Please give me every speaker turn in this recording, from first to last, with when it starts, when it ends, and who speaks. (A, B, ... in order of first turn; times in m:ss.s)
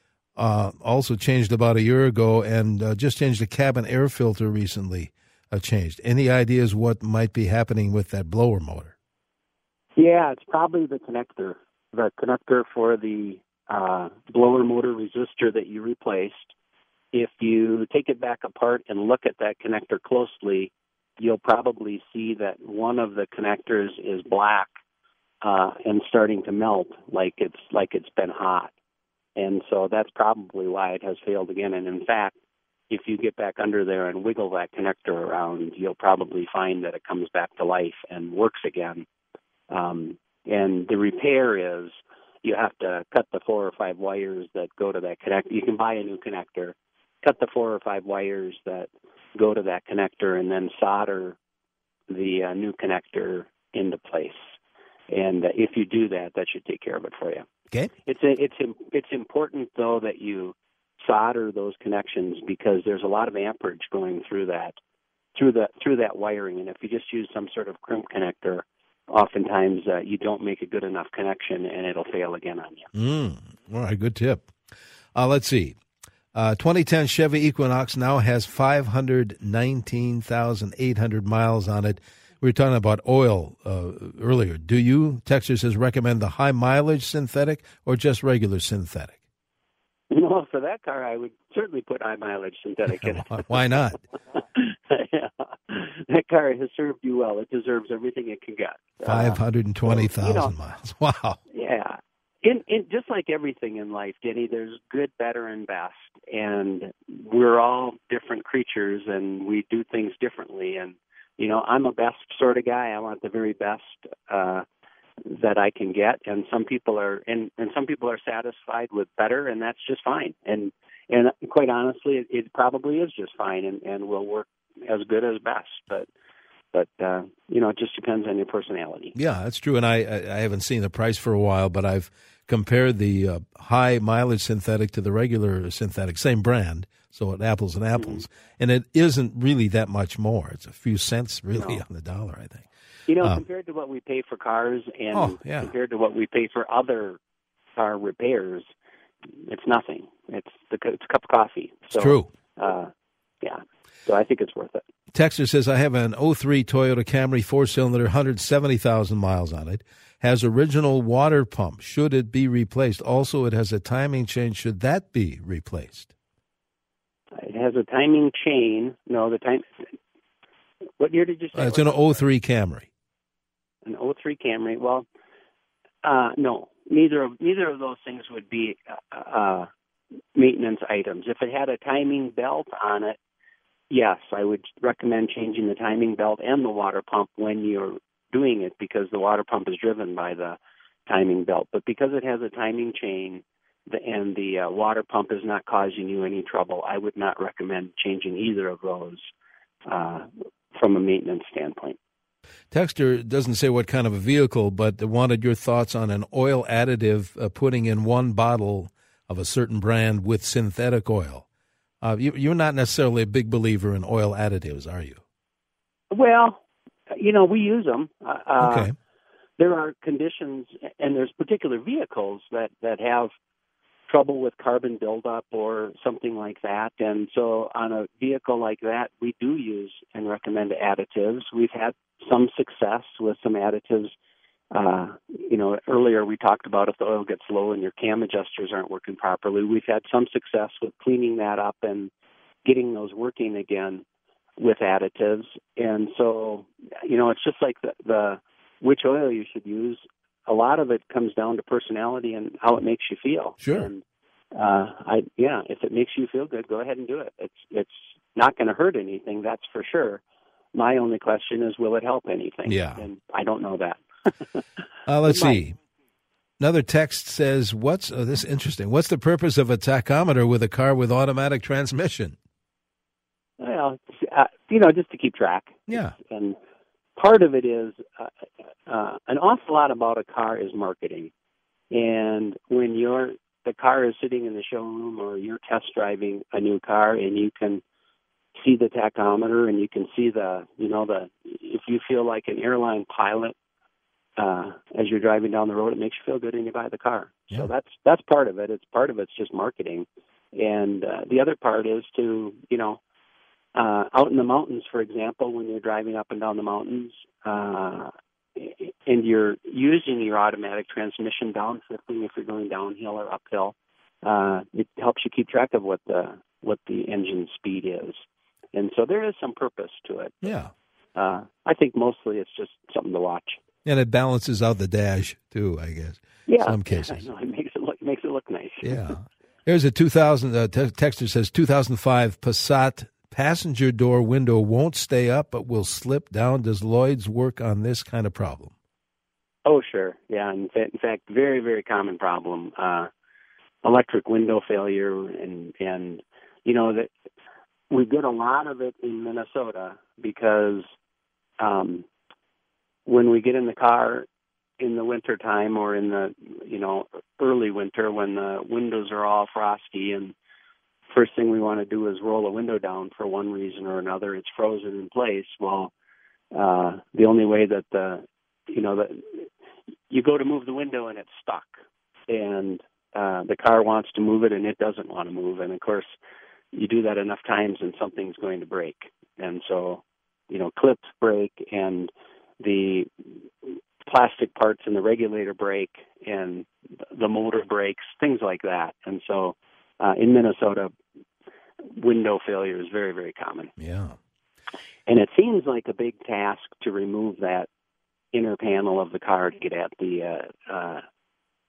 0:00.4-0:08.9 A
0:10.0-0:16.5 B
0:17.1-0:24.7 B
0:25.4-0:28.7 B
0:29.4-0:32.4 B
0:32.9-0:39.0 B
0:39.7-0:51.4 B
0:52.1-0:54.5 B
0:55.1-0:57.4 B
0:58.0-1:04.8 B
1:05.3-1:12.9 B
1:12.9-1:14.5 A
1:15.1-1:15.8 A
1:16.3-1:29.2 A
1:30.1-1:33.6 B
1:32.9-1:34.0 A
1:34.3-1:40.5 B
1:39.0-1:41.4 A
1:41.5-1:54.6 B
1:55.2-2:06.1 B
2:06.7-2:09.1 B
2:09.1-2:22.6 A
2:18.0-2:18.2 B
2:21.5-2:21.8 B
2:23.1-2:27.2 B
2:25.1-2:25.7 A
2:27.8-2:28.7 B
2:29.4-2:32.9 B
2:31.9-2:32.3 A
2:33.4-2:34.8 B
2:35.1-2:46.1 A
2:47.4-2:49.8 B
2:51.0-2:52.0 B
2:51.5-2:52.9 A
2:53.8-2:55.0 B
2:56.0-2:59.7 B
3:00.3-3:03.2 B
3:03.9-3:19.3 B
3:19.9-3:22.0 B
3:22.7-3:31.4 A
3:32.0-3:35.2 A
3:36.1-3:38.9 B
3:38.6-3:38.9 A
3:39.6-3:43.3 B
3:44.1-3:54.1 B
3:54.7-4:02.1 B
4:02.6-4:04.0 B
4:04.6-4:20.2 B
4:13.6-4:13.9 A
4:20.7-4:24.6 B
4:22.6-4:23.0 A
4:25.1-4:25.8 A
4:25.2-4:25.6 B
4:26.6-4:32.4 A
4:33.6-4:36.6 B
4:35.9-4:36.2 A
4:37.2-4:41.3 B
4:41.9-4:47.8 B
4:48.5-4:53.5 B
4:54.4-5:03.0 B
5:03.7-5:18.2 B
5:18.7-5:20.5 B
5:20.4-5:20.7 A
5:21.1-5:23.6 B
5:23.8-5:27.2 A
5:26.5-5:29.1 B
5:28.8-5:38.7 A
5:39.6-5:43.1 B
5:43.8-5:47.1 B
5:47.9-5:50.8 B
5:51.6-5:52.1 B
5:53.0-5:54.3 B
5:54.8-6:00.3 B
6:01.1-6:05.9 B
6:06.5-6:09.5 B
6:10.1-6:16.2 B
6:16.7-6:30.9 B
6:31.8-6:33.7 B
6:33.8-6:34.2 A
6:35.1-6:37.7 B
6:38.3-6:41.0 B